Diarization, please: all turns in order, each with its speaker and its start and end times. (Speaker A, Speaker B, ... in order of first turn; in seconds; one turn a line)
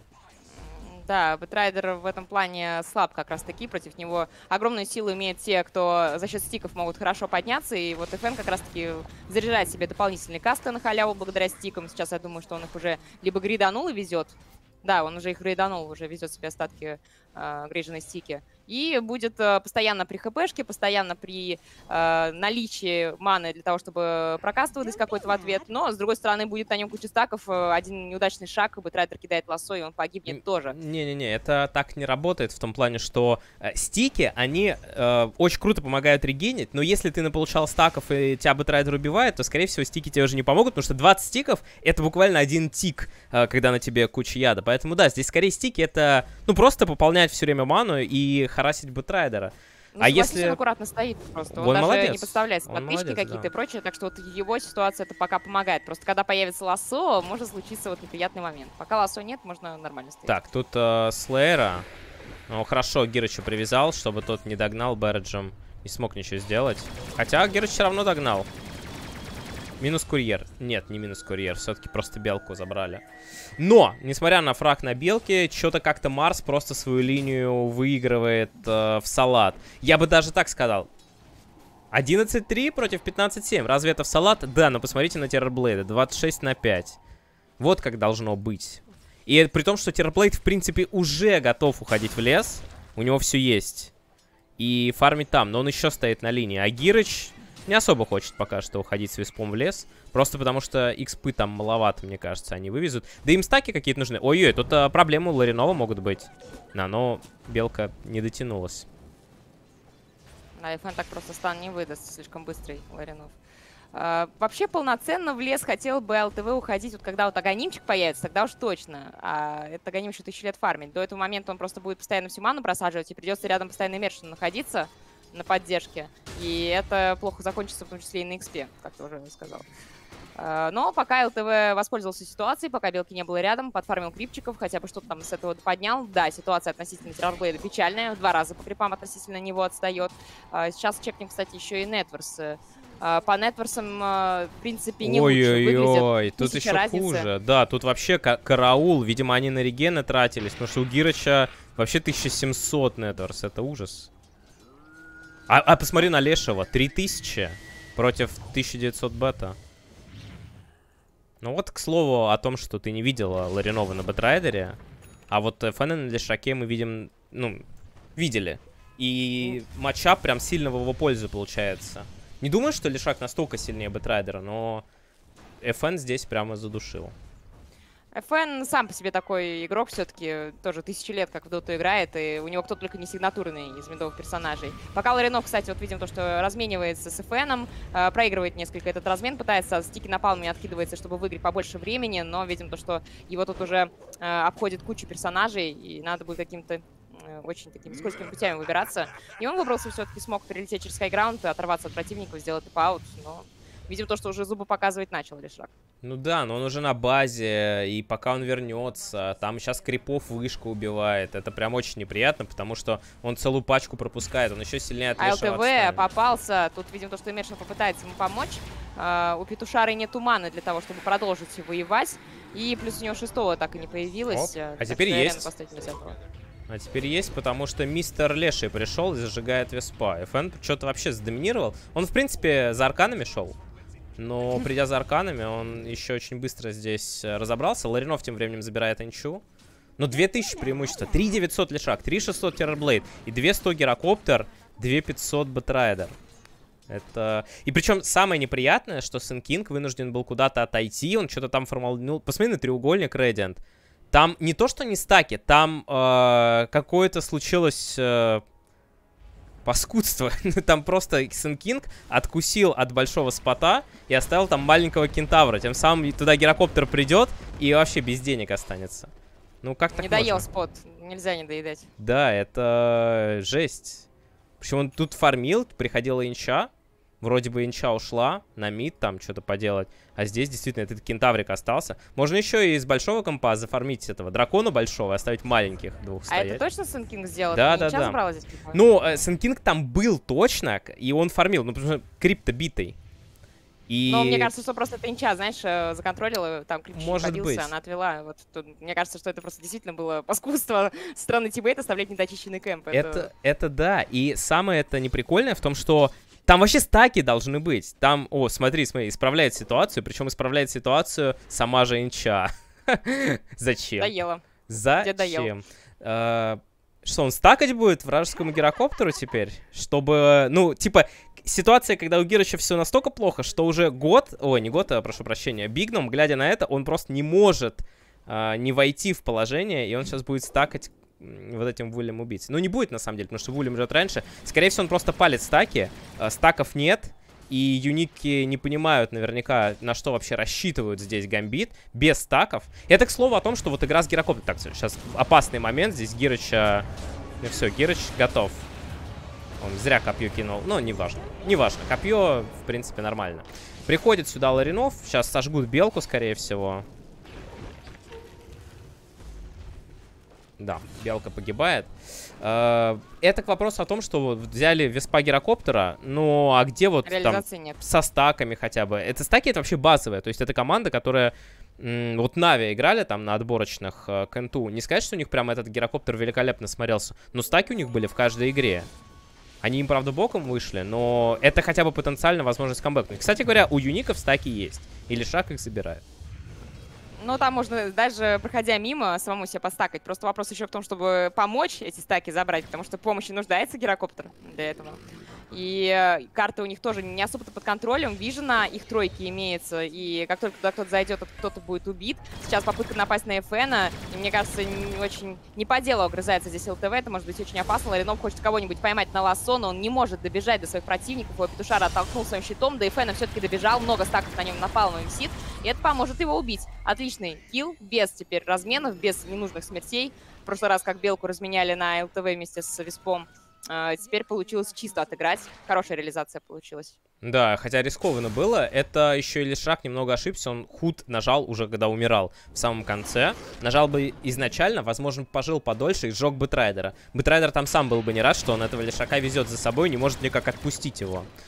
Speaker A: 0.6-30.7
Speaker B: 30.3-50.6
Speaker A: 49.9-60.3
Speaker B: 51.5-53.5
Speaker B: 60.3-61.9
Speaker B: 62.5-68.5
Speaker B: 69.8-73.0
Speaker B: 73.6-80.9
Speaker B: 81.9-87.0
Speaker B: 87.6-93.9
Speaker B: 94.6-108.9
Speaker A: 110.6-113.3
Speaker A: 113.9-129.7
Speaker A: 130.3-147.3
Speaker B: 145.0-154.1
Speaker B: 155.5-159.6
Speaker B: 161.4-164.8
Speaker B: 165.3-167.6
Speaker B: 168.2-174.8
Speaker B: 175.6-177.1
Speaker A: 178.1-205.7
Speaker B: 206.0-216.0
Speaker A: 215.2-226.2
Speaker B: 224.3-225.5
Speaker B: 226.7-233.6
Speaker B: 234.2-239.4
Speaker B: 240.0-246.2
Speaker B: 246.9-258.4
Speaker B: 259.6-269.1
Speaker B: 269.6-270.4
Speaker A: 269.9-271.9
Speaker B: 272.0-274.1
Speaker B: 274.6-276.7
Speaker B: 277.2-286.6
Speaker A: 286.3-288.8
Speaker B: 287.5-288.2
Speaker B: 288.7-292.9
Speaker B: 293.9-294.5
Speaker A: 294.1-303.3
Speaker B: 296.9-297.7
Speaker B: 302.9-314.1
Speaker A: 314.0-315.5
Speaker B: 314.7-346.9
Speaker B: 347.4-348.6
Speaker B: 349.6-356.9
Speaker B: 360.6-378.9
Speaker A: 367.0-367.8
Speaker B: 379.6-386.0
Speaker A: 387.2-426.9
Speaker B: 427.2-441.3